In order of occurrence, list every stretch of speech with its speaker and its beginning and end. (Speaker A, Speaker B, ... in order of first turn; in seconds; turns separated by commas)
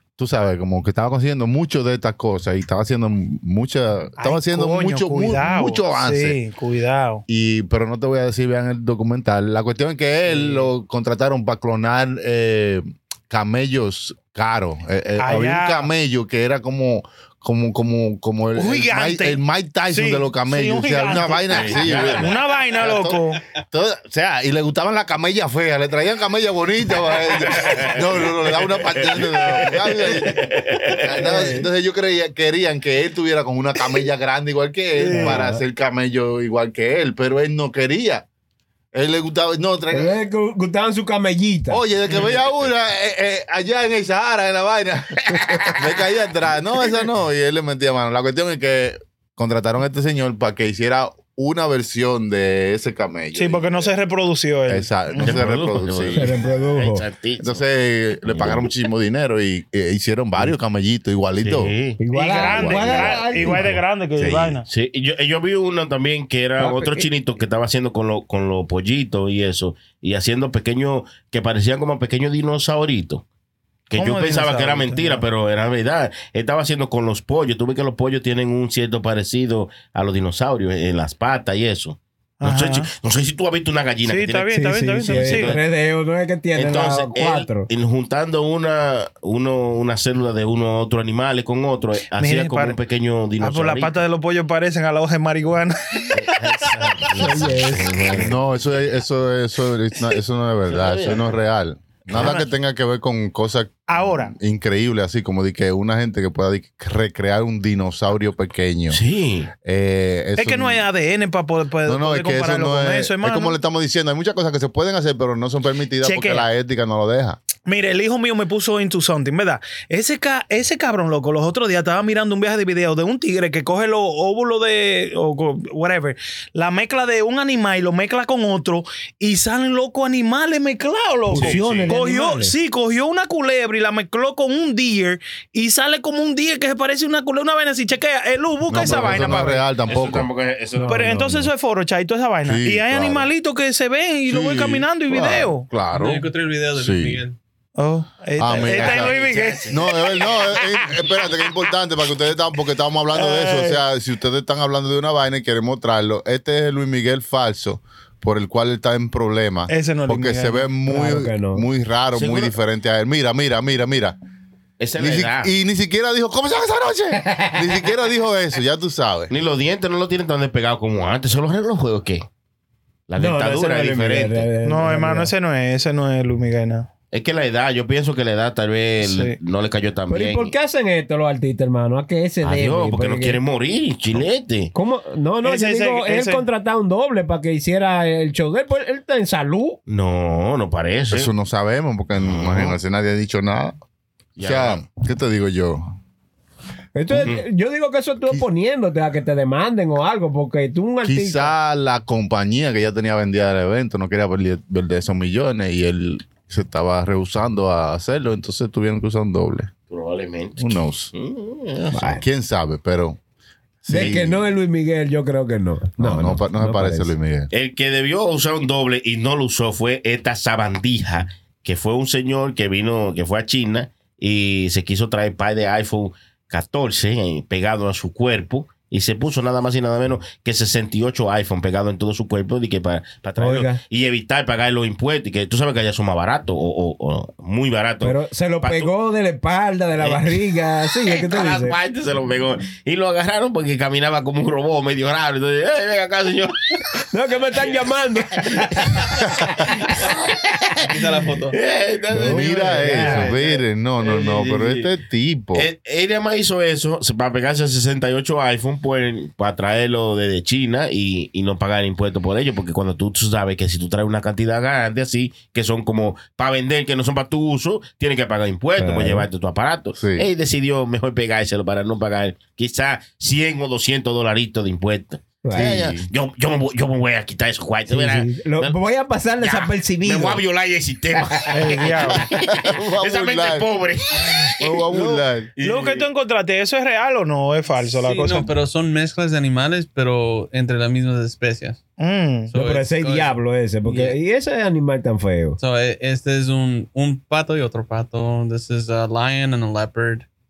Speaker A: 0.2-6.4, Speaker B: 4.2-7.2, Speaker A: 7.3-38.2, Speaker B: 10.3-10.7, Speaker B: 15.2-15.9, Speaker B: 18.6-23.4, Speaker C: 21.5-22.3, Speaker C: 27.5-31.1, Speaker D: 31.2-31.7, Speaker B: 35.0-35.4, Speaker D: 35.1-35.6, Speaker A: 38.9-40.2, Speaker D: 39.9-41.8, Speaker A: 41.7-53.9, Speaker C: 42.1-42.4, Speaker C: 45.3-45.7, Speaker B: 53.4-55.5, Speaker A: 54.7-56.3, Speaker C: 55.2-57.6, Speaker D: 56.1-57.0, Speaker A: 57.4-61.7, Speaker C: 58.3-58.7, Speaker C: 61.4-62.0, Speaker D: 62.0-63.8, Speaker B: 62.1-64.7, Speaker A: 62.4-63.7, Speaker A: 64.2-64.6, Speaker C: 64.7-73.2, Speaker D: 66.6-67.1, Speaker C: 73.9-84.5, Speaker B: 74.0-75.2, Speaker B: 82.4-82.9, Speaker B: 84.0-85.6, Speaker D: 84.5-87.7, Speaker C: 85.0-85.6, Speaker C: 86.5-94.0, Speaker B: 92.2-92.8, Speaker B: 93.4-97.1, Speaker C: 96.1-98.4, Speaker D: 97.1-98.1, Speaker A: 98.1-109.0, Speaker C: 100.7-101.3, Speaker B: 102.1-102.5, Speaker B: 103.9-104.3, Speaker C: 108.9-109.5, Speaker A: 109.6-110.8, Speaker B: 110.4-113.6, Speaker A: 111.8-117.4, Speaker B: 116.0-116.5, Speaker B: 117.7-139.7, Speaker D: 131.3-132.5, Speaker C: 131.3-131.9, Speaker A: 138.7-140.3, Speaker C: 139.9-141.0, Speaker D: 140.8-141.5, Speaker B: 140.9-145.7, Speaker A: 142.4-143.3, Speaker A: 144.3-147.2, Speaker E: 145.9-147.4, Speaker B: 147.8-150.7, Speaker A: 148.4-149.2, Speaker C: 148.5-150.6, Speaker A: 149.7-164.2, Speaker B: 153.2-153.8, Speaker B: 159.7-160.7, Speaker D: 160.9-161.7, Speaker C: 162.1-162.5, Speaker C: 164.8-165.5, Speaker A: 165.0-169.3, Speaker C: 169.3-172.3, Speaker C: 173.1-174.5, Speaker D: 173.2-175.3, Speaker B: 174.6-176.9, Speaker C: 177.1-180.5, Speaker B: 179.0-179.4, Speaker D: 180.1-183.4, Speaker C: 182.4-184.7, Speaker D: 184.7-189.8, Speaker B: 185.4-186.5, Speaker C: 189.9-191.3, Speaker A: 191.1-193.8, Speaker C: 192.2-192.8, Speaker C: 194.4-194.8, Speaker A: 194.4-195.9, Speaker D: 196.9-201.5, Speaker C: 197.1-197.4, Speaker A: 201.0-209.7, Speaker C: 209.9-212.1, Speaker A: 210.6-211.1, Speaker D: 211.9-212.2, Speaker A: 212.1-213.2, Speaker A: 213.8-214.4, Speaker D: 213.9-217.1, Speaker A: 216.0-217.5, Speaker C: 217.5-238.9, Speaker D: 233.4-233.8, Speaker D: 238.0-241.8, Speaker C: 240.0-240.4, Speaker C: 241.0-246.9, Speaker D: 247.1-249.2, Speaker C: 250.0-250.9, Speaker E: 250.8-251.6, Speaker C: 251.5-254.9, Speaker D: 252.1-253.3, Speaker A: 252.1-255.7, Speaker C: 255.6-278.8, Speaker D: 268.8-269.3, Speaker A: 270.0-270.3, Speaker D: 275.4-275.7, Speaker A: 275.5-276.1, Speaker D: 277.9-280.4, Speaker C: 279.4-286.1, Speaker D: 281.3-281.9, Speaker B: 281.6-282.2, Speaker A: 282.2-283.7, Speaker A: 284.3-285.5, Speaker B: 285.6-288.5, Speaker E: 287.8-291.8, Speaker B: 292.0-292.5, Speaker E: 292.5-293.3, Speaker D: 292.5-295.6, Speaker E: 293.9-294.1, Speaker E: 295.6-300.2